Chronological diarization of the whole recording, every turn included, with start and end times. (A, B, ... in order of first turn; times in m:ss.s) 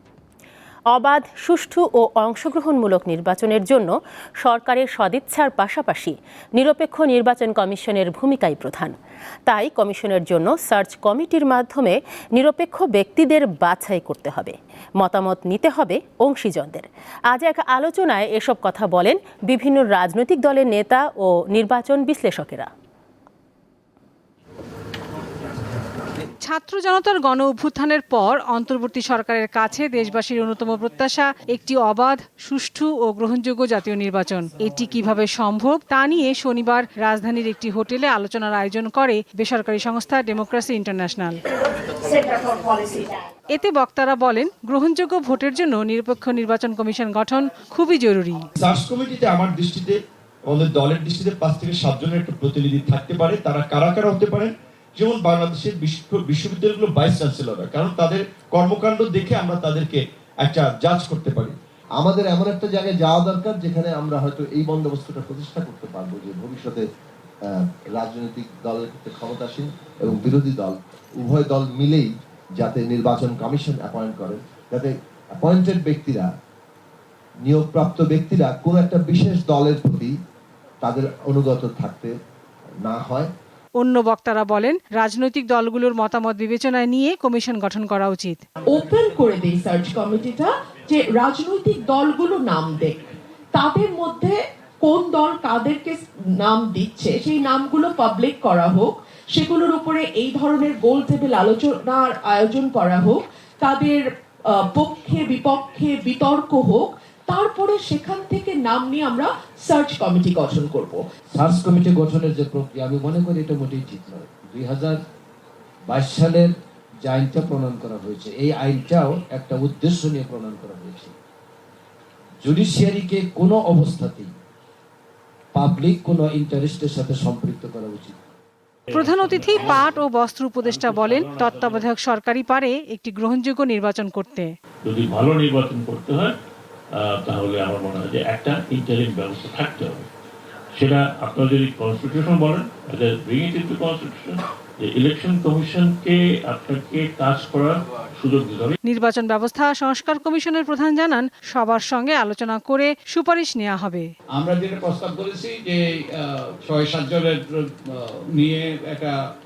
0:00.9-0:03.9 A
0:04.4-0:09.0 A
0:09.5-0:22.7 A
0:26.4-0:41.4 B
0:42.5-0:48.5 B
0:48.6-1:01.6 C
1:02.0-1:06.9 D
1:07.5-1:16.3 D
1:17.4-1:20.2 D
1:20.8-1:22.2 D
1:22.8-1:23.3 D
1:23.8-1:28.4 B
1:28.7-1:51.0 E
1:51.4-1:55.0 F
1:55.9-2:01.1 F
2:02.4-2:04.3 F
2:05.5-2:08.2 F
2:08.9-2:10.0 G
2:08.9-2:14.5 B
2:10.6-2:11.8 G
2:14.8-2:16.4 G
2:17.2-2:20.1 G
2:20.8-2:28.8 G
2:28.8-2:34.1 B
2:34.3-2:39.2 H